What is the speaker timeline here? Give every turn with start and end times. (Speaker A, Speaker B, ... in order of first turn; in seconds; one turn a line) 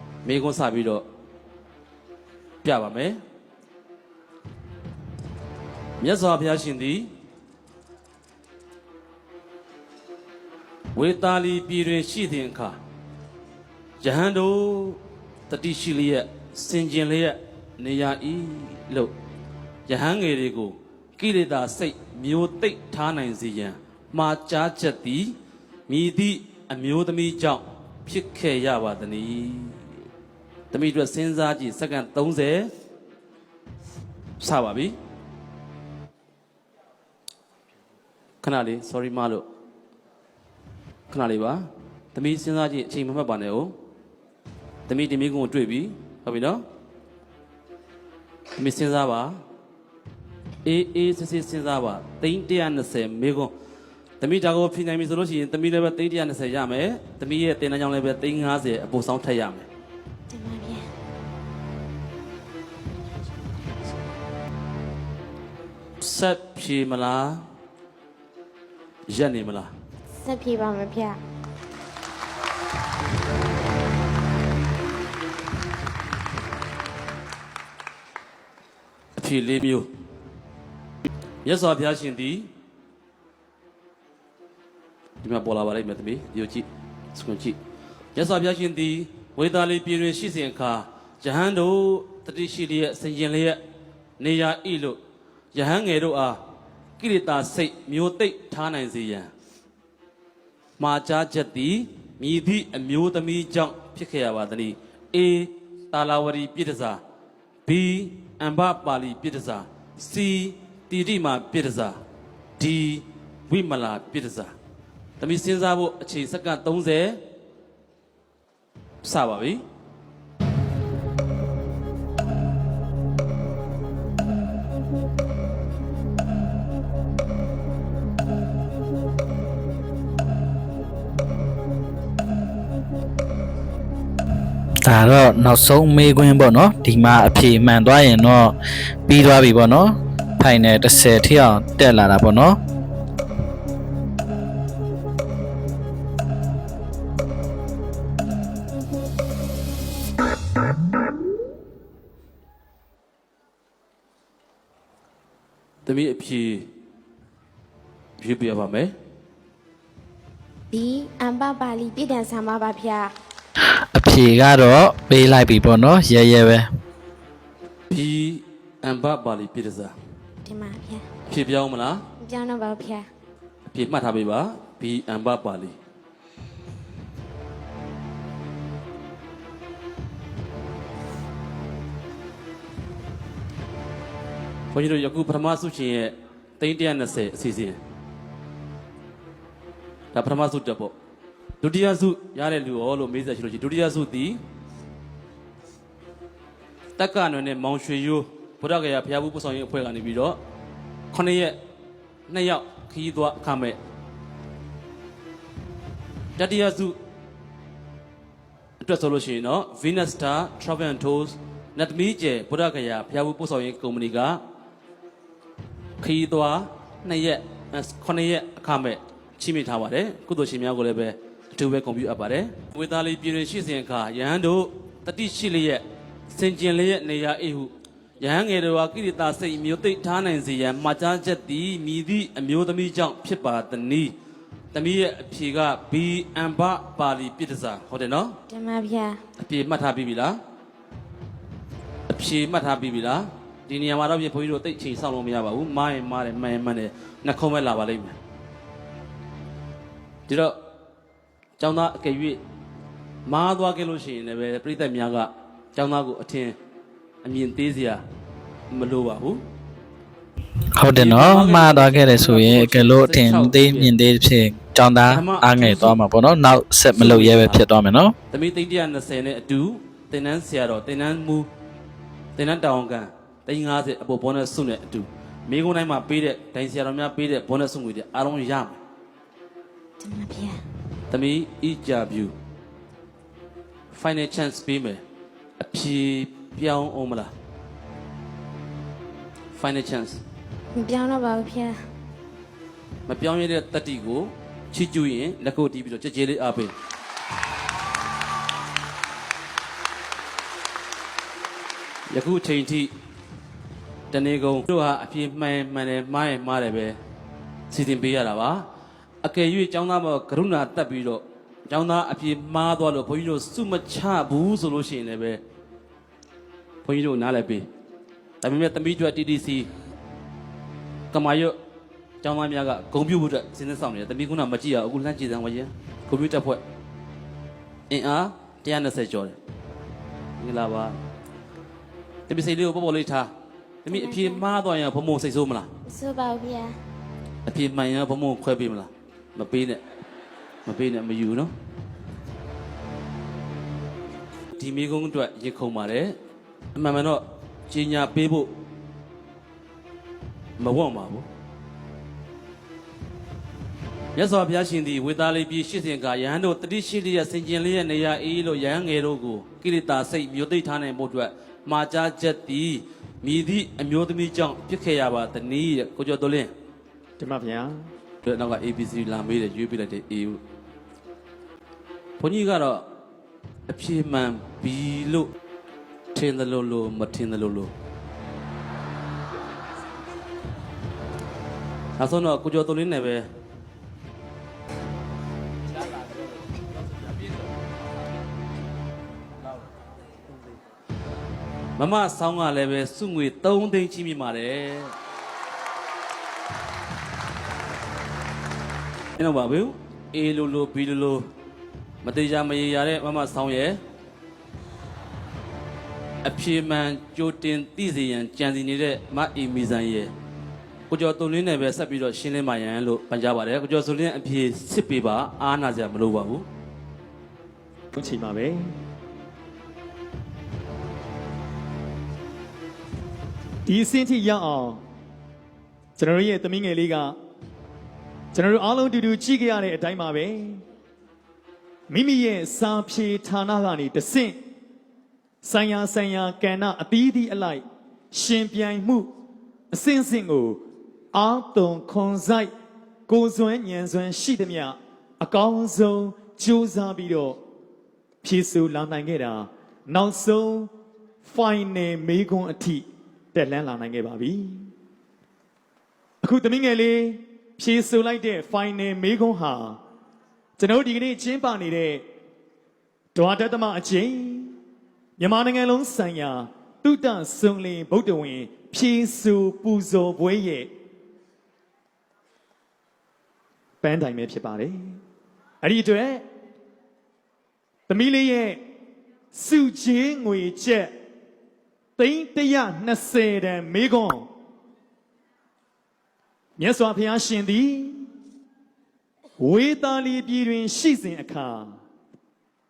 Speaker A: 0.2-1.1
Speaker A: 2.6-3.2
Speaker A: 6.0-7.1
Speaker A: 10.9-12.8
Speaker A: 14.0-19.1
Speaker A: 19.9-25.4
Speaker A: 25.9-29.9
Speaker A: 30.7-32.7
Speaker A: 34.4-35.0
Speaker A: 38.4-39.5
Speaker A: 41.1-43.8
Speaker A: 44.9-46.6
Speaker A: 48.6-49.4
Speaker A: 50.6-53.5
Speaker A: 54.2-59.7
Speaker B: 60.3-60.9
Speaker A: 66.0-67.5
Speaker A: 69.1-69.7
Speaker B: 70.2-71.2
Speaker A: 79.2-79.9
Speaker A: 81.4-82.5
Speaker A: 85.2-87.6
Speaker A: 88.2-93.6
Speaker A: 94.2-95.0
Speaker A: 95.5-96.4
Speaker A: 97.0-99.3
Speaker A: 100.8-107.0
Speaker A: 107.7-112.0
Speaker A: 112.6-114.5
Speaker A: 115.2-117.2
Speaker A: 119.0-119.6
Speaker C: 134.8-138.6
Speaker C: 139.1-142.6
Speaker A: 155.8-156.7
Speaker A: 158.2-158.9
Speaker B: 160.7-163.1
Speaker C: 163.9-166.7
Speaker A: 167.9-169.9
Speaker B: 170.4-171.0
Speaker A: 171.3-172.0
Speaker B: 172.2-173.1
Speaker A: 173.7-175.8
Speaker A: 184.7-187.8
Speaker A: 190.1-190.9
Speaker A: 191.6-194.4
Speaker A: 197.0-200.4
Speaker A: 201.1-201.6
Speaker A: 202.3-203.8
Speaker A: 206.4-207.0
Speaker A: 208.8-214.4
Speaker A: 216.0-234.1
Speaker A: 234.7-238.4
Speaker B: 238.5-239.2
Speaker A: 239.4-240.4
Speaker A: 242.1-248.2
Speaker A: 250.3-250.6
Speaker A: 251.6-252.4
Speaker A: 253.3-256.6
Speaker A: 257.2-258.0
Speaker A: 258.7-259.4
Speaker C: 260.8-268.1
Speaker A: 260.9-263.9
Speaker A: 265.1-266.0
Speaker A: 266.9-267.6
Speaker A: 268.3-271.5
Speaker A: 272.4-278.8
Speaker B: 280.0-280.6
Speaker A: 281.1-282.4
Speaker A: 283.9-285.0
Speaker A: 285.6-287.3
Speaker A: 289.6-290.2
Speaker B: 290.8-291.8
Speaker A: 293.1-296.7
Speaker A: 302.1-302.9
Speaker A: 304.1-307.0
Speaker A: 307.7-308.7
Speaker A: 309.2-315.4
Speaker A: 316.8-317.7
Speaker A: 318.4-319.7
Speaker A: 321.1-321.6
Speaker A: 322.2-326.6
Speaker A: 327.9-329.4
Speaker A: 330.4-331.0
Speaker A: 332.3-333.3
Speaker A: 333.9-335.7
Speaker B: 333.9-334.4
Speaker B: 335.9-336.7
Speaker A: 337.5-339.8
Speaker A: 340.7-341.5
Speaker A: 344.6-346.2
Speaker A: 346.8-348.5
Speaker A: 350.6-351.3
Speaker A: 354.1-366.5
Speaker D: 367.2-367.9
Speaker A: 368.2-370.4
Speaker A: 372.2-372.9
Speaker A: 373.7-375.3
Speaker A: 376.1-377.7
Speaker A: 382.0-383.2
Speaker A: 391.8-394.9
Speaker A: 399.2-401.3
Speaker A: 402.0-403.8
Speaker A: 406.2-410.1
Speaker A: 410.9-416.5
Speaker D: 417.9-418.7
Speaker D: 423.7-424.8
Speaker D: 426.0-427.2
Speaker D: 428.3-430.6
Speaker D: 431.9-434.4
Speaker D: 435.4-439.1
Speaker D: 439.7-442.5
Speaker D: 443.1-447.4
Speaker D: 448.2-450.7
Speaker D: 451.2-454.7
Speaker D: 456.2-459.8
Speaker D: 460.6-462.0
Speaker D: 463.1-464.6
Speaker D: 465.2-470.7
Speaker D: 473.8-474.8
Speaker D: 475.6-476.2
Speaker D: 477.9-478.6
Speaker D: 479.3-480.9
Speaker D: 482.0-484.3
Speaker D: 486.6-488.1
Speaker D: 489.4-491.8